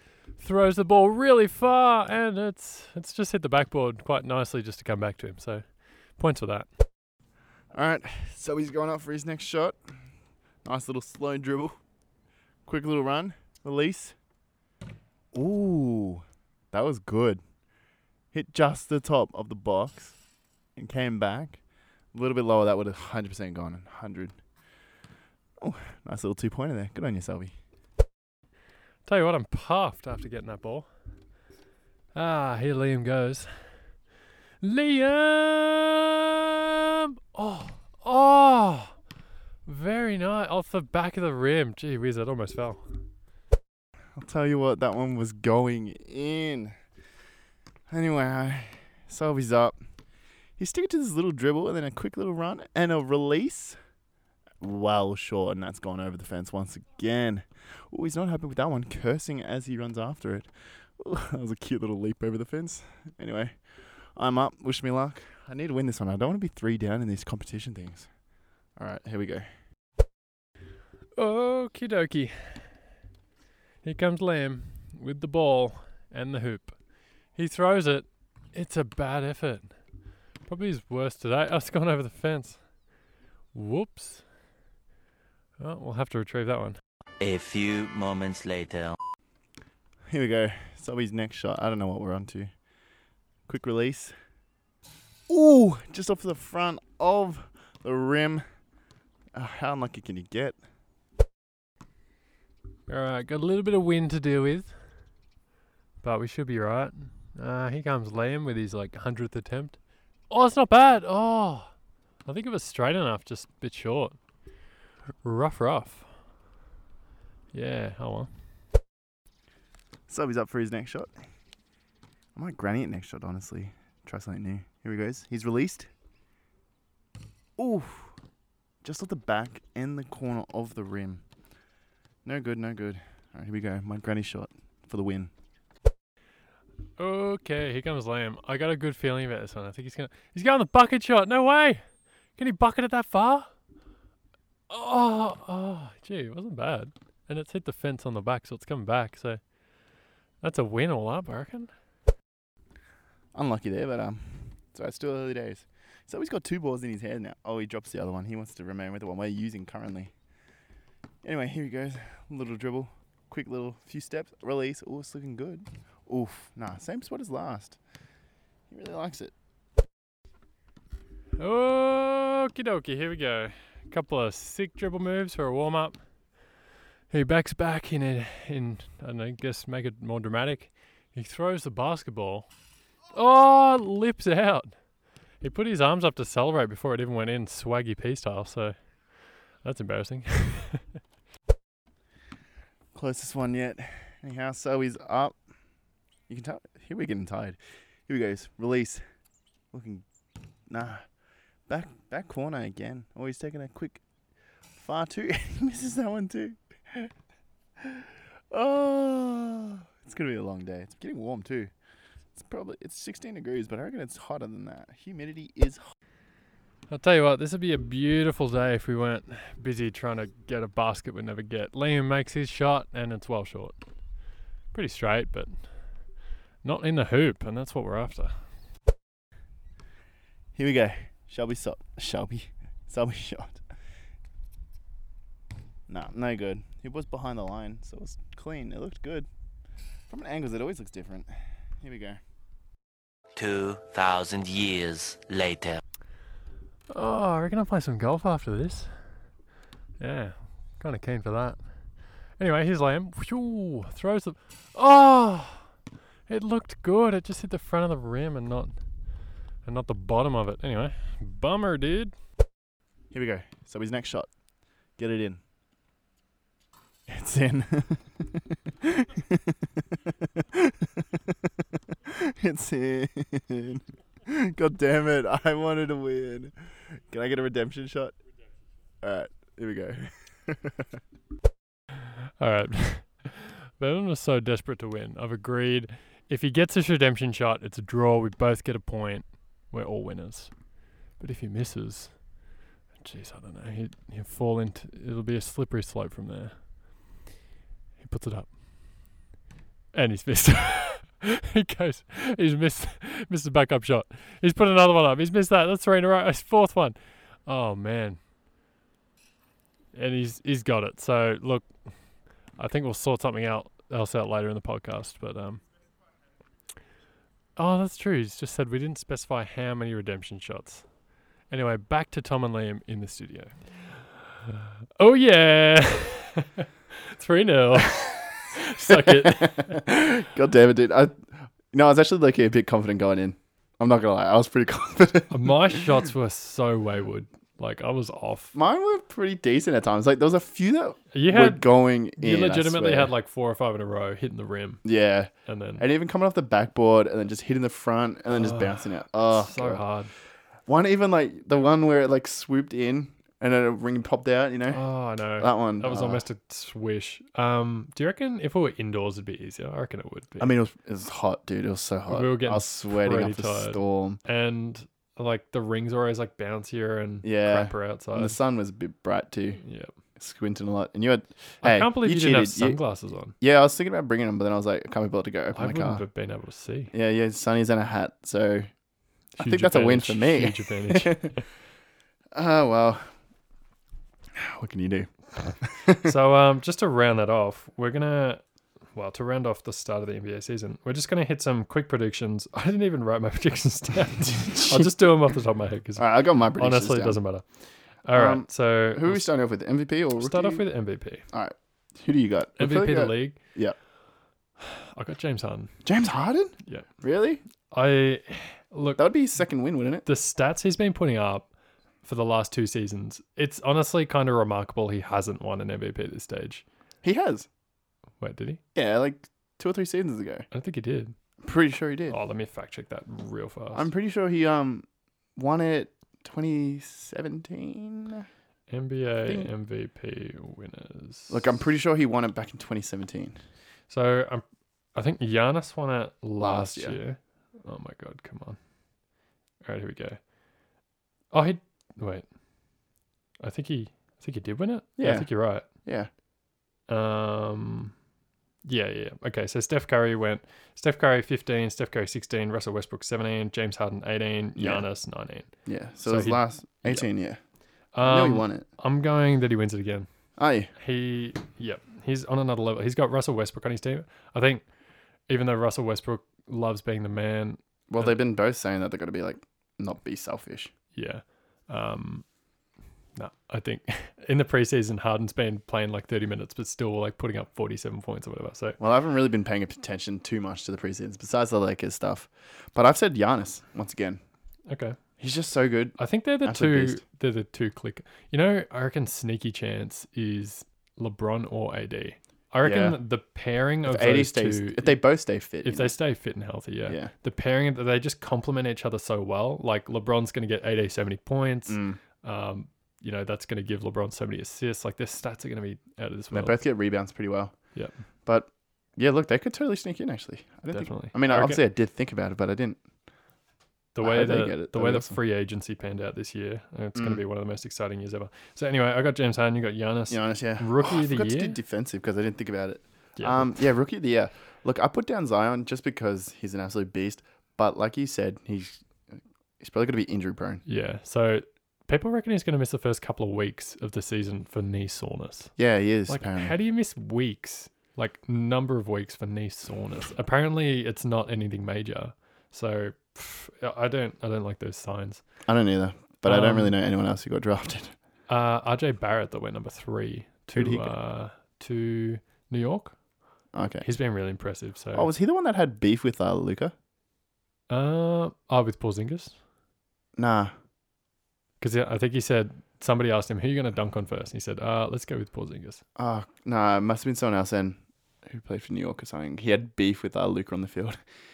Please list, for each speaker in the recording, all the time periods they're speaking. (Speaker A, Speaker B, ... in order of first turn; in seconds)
Speaker A: 0.3-5.7, 6.2-6.7, 29.1-30.9, 32.1-33.5, 34.6-39.0, 39.7-42.9, 71.2-72.7, 73.8-76.8, 77.3-79.7, 80.5-82.6, 83.5-84.2, 85.6-86.8, 102.9-104.7, 106.0-109.8, 110.3-111.7, 112.3-114.2, 115.2-116.1, 117.5-118.3, 137.0-141.8, 142.4-143.5, 144.7-149.4, 150.4-151.7, 171.4-176.0, 177.1-182.5, 183.1-184.8, 185.4-188.8, 189.6-190.9, 216.9-223.8, 224.7-225.6, 226.6-228.4, 246.9-249.0, 250.0-251.6, 252.4-255.7, 256.3-258.8, 259.6-262.1, 282.4-290.5, 291.2-292.2, 293.0-296.6, 298.0-299.1, 299.9-308.2, 309.9-311.7, 312.6-315.6, 317.6-320.9, 321.5-329.8, 335.3-338.6, 341.1-341.7, 342.2-344.8, 345.5-345.9, 348.3-350.1, 354.7-360.5, 362.1-368.4, 369.6-369.9, 371.6-373.4, 375.6-376.9, 379.4-381.4, 386.0-388.4, 388.9-397.4, 398.1-399.3, 400.2-401.2, 402.6-403.4, 404.6-405.7, 407.7-409.0, 410.1-411.5, 412.0-416.6, 418.2-418.6, 420.5-421.1, 422.1-423.9, 428.7-431.4, 433.9-434.4, 434.9-438.6, 439.6-440.2, 441.3-442.3, 443.4-445.7, 446.9-447.9, 448.7-455.5, 456.1-457.1, 457.9-460.1, 460.8-464.6, 465.3-468.1, 470.9-472.2, 473.2-478.8, 484.7-485.0, 486.0-495.0, 495.6-506.6, 510.7-511.6, 514.0-521.6, 523.2-523.6, 530.7-535.5, 536.1-545.2, 546.2-546.7, 548.3-553.0, 553.8-555.1, 557.7-559.4, 561.6-565.8
Speaker B: 7.7-9.8, 10.6-11.8, 12.7-14.2, 15.3-17.4, 18.3-20.2, 20.8-21.6, 22.1-24.4, 25.6-27.5, 44.2-46.8, 47.9-49.8, 50.6-53.8, 54.6-63.6, 64.2-68.1, 68.8-69.5, 90.1-92.5, 93.5-94.2, 95.3-98.4, 99.3-100.6, 120.1-121.2, 122.3-125.9, 127.6-128.2, 128.8-131.2, 132.2-135.3, 153.3-160.1, 161.2-167.8, 168.7-169.3, 192.9-195.4, 196.3-199.0, 199.7-200.1, 200.7-201.1, 201.7-204.0, 204.7-207.1, 207.8-211.7, 212.3-215.9, 230.6-233.6, 235.9-239.3, 240.1-241.3, 241.8-242.2, 263.1-264.3, 265.0-265.4, 267.1-269.7, 270.4-278.2, 279.0-281.0, 328.9-335.9, 338.5-343.1, 344.8-349.8, 350.7-354.8, 355.4-356.2, 360.4-364.2, 367.2-369.6, 370.2-372.8, 373.4-376.0, 376.9-378.7, 379.4-381.4, 382.3-383.1, 384.4-386.1, 394.3-394.9, 396.0-397.2, 398.1-400.6, 401.3-403.8, 405.9-407.4, 409.0-410.1, 417.0-417.5, 418.8-420.5, 421.4-422.2, 423.8-428.3, 429.2-429.5, 431.3-433.4, 436.4-437.0, 445.0-446.1, 454.6-454.9, 455.7-457.4, 458.0-458.7, 460.4-460.7, 467.9-470.7, 478.8-484.2, 485.2-487.0, 492.6-493.0, 493.9-495.9, 501.7-502.0, 506.3-507.5, 508.3-512.8, 514.0-515.2, 517.0-517.2, 520.1-530.6, 535.6-536.5, 545.5-548.0, 550.5-550.9, 553.5-553.9, 554.9-556.7, 560.2-560.5, 566.0-571.0
Speaker C: 87.2-89.0, 243.4-245.8